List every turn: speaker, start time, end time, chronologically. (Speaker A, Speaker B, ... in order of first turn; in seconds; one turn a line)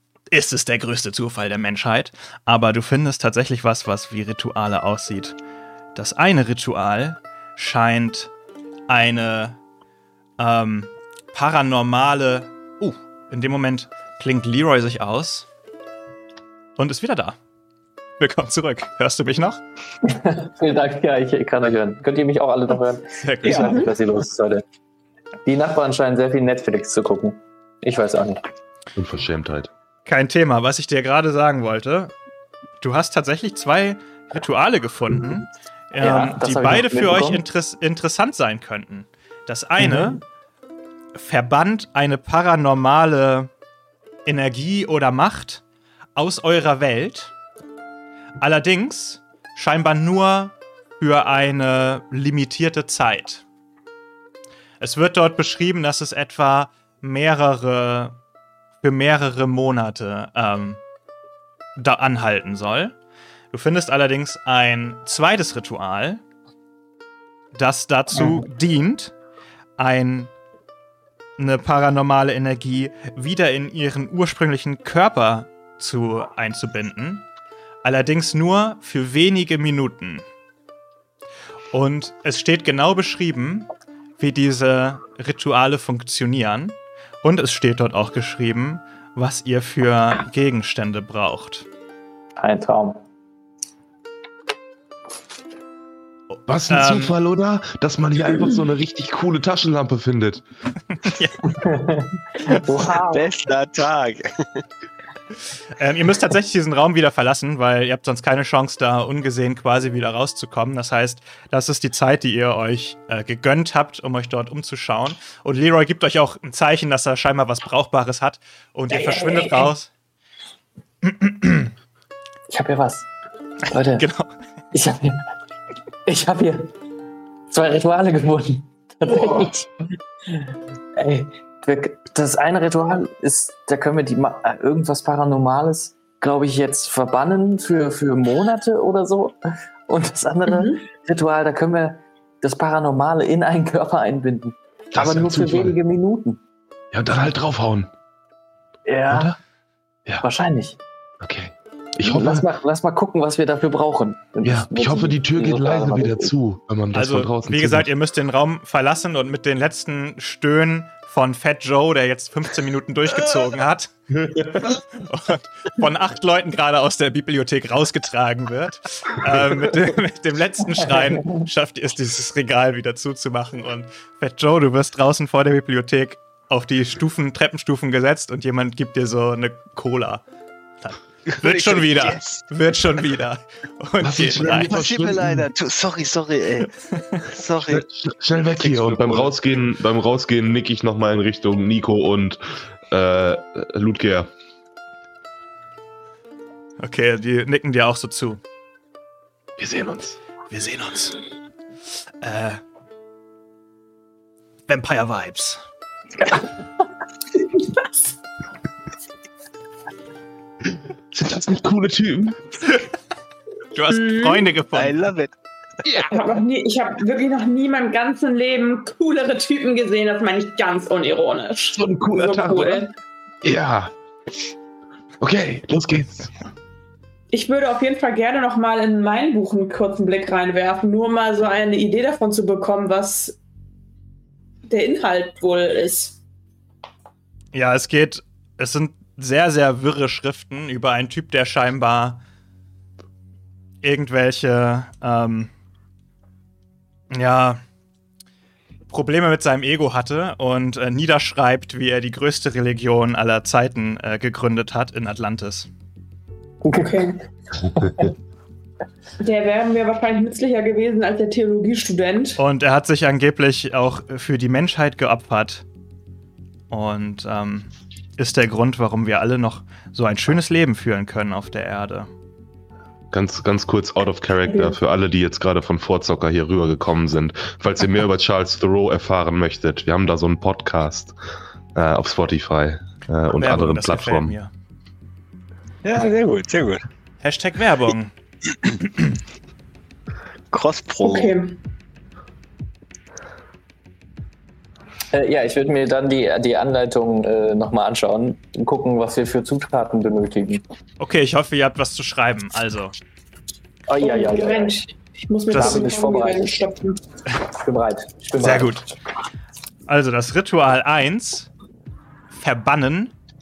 Speaker A: 0.3-5.3
Speaker A: 5.9-8.3
Speaker A: 8.9-9.6
Speaker A: 10.4-15.5
Speaker A: 16.8-17.4
Speaker A: 18.2-19.6
Speaker B: 20.0-24.6
Speaker A: 23.2-23.9
Speaker C: 23.4-23.7
Speaker D: 23.6-23.9
Speaker B: 25.4-28.4
Speaker E: 28.9-29.7
Speaker A: 30.1-32.1
Speaker A: 32.8-40.2
Speaker B: 36.0-37.4
Speaker B: 39.8-40.2
Speaker A: 41.1-43.5
Speaker A: 44.2-45.6
Speaker A: 46.1-47.3
Speaker A: 48.4-53.4
Speaker A: 54.8-58.2
Speaker A: 58.8-60.8
Speaker A: 61.8-63.0
Speaker A: 63.5-66.2
Speaker A: 67.5-69.1
Speaker A: 69.8-70.3
Speaker A: 71.4-77.3
Speaker A: 77.8-80.2
Speaker A: 81.7-91.7
Speaker B: 92.4-93.0
Speaker A: 96.3-97.1
Speaker E: 96.5-100.4
Speaker A: 100.9-101.6
Speaker B: 101.6-103.2
Speaker C: 103.1-104.6
Speaker A: 105.8-119.9
Speaker B: 118.9-119.7
Speaker A: 121.0-121.7
Speaker B: 122.5-123.1
Speaker B: 123.7-124.0
Speaker A: 123.7-124.3
Speaker B: 124.7-125.2
Speaker B: 126.0-126.7
Speaker B: 127.5-129.7
Speaker B: 130.3-139.3
Speaker B: 139.9-146.4
Speaker D: 140.5-140.8
Speaker E: 144.9-145.8
Speaker E: 146.9-147.9
Speaker B: 148.8-149.4
Speaker E: 149.1-149.4
Speaker B: 150.2-150.8
Speaker E: 151.2-152.5
Speaker B: 152.0-156.3
Speaker E: 154.4-157.9
Speaker A: 156.9-163.9
Speaker E: 164.1-164.7
Speaker A: 164.6-180.2
Speaker A: 180.8-184.7
Speaker C: 181.3-182.5
Speaker E: 184.0-185.5
Speaker C: 184.4-186.7
Speaker A: 186.9-187.2
Speaker C: 187.3-189.3
Speaker E: 187.7-194.3
Speaker A: 196.8-198.4
Speaker E: 199.6-200.2
Speaker A: 200.5-201.2
Speaker A: 202.2-202.6
Speaker A: 204.7-205.6
Speaker E: 210.7-212.4
Speaker A: 213.7-214.9
Speaker D: 213.9-214.5
Speaker C: 214.7-215.3
Speaker E: 215.8-216.2
Speaker D: 216.1-222.9
Speaker E: 221.7-222.8
Speaker E: 223.4-223.9
Speaker E: 225.2-226.3
Speaker D: 227.3-233.4
Speaker D: 234.7-236.2
Speaker A: 237.5-242.2
Speaker A: 243.8-245.5
Speaker A: 247.1-247.6
Speaker A: 248.9-255.7
Speaker B: 256.6-258.1
Speaker D: 256.7-257.1
Speaker D: 259.2-262.4
Speaker A: 262.4-265.6
Speaker A: 266.7-272.1
Speaker E: 273.1-281.1
Speaker D: 274.5-274.7
Speaker E: 281.7-284.4
Speaker A: 283.3-284.5
Speaker C: 285.8-286.8
Speaker A: 287.2-288.1
Speaker A: 288.6-289.1
Speaker C: 290.5-291.3
Speaker D: 291.0-291.6
Speaker B: 295.1-300.6
Speaker A: 301.0-302.9
Speaker B: 303.9-304.8
Speaker D: 304.0-307.0
Speaker B: 305.5-306.6
Speaker A: 305.5-305.8
Speaker B: 307.5-308.9
Speaker A: 308.4-308.9
Speaker A: 309.9-311.5
Speaker A: 312.3-313.1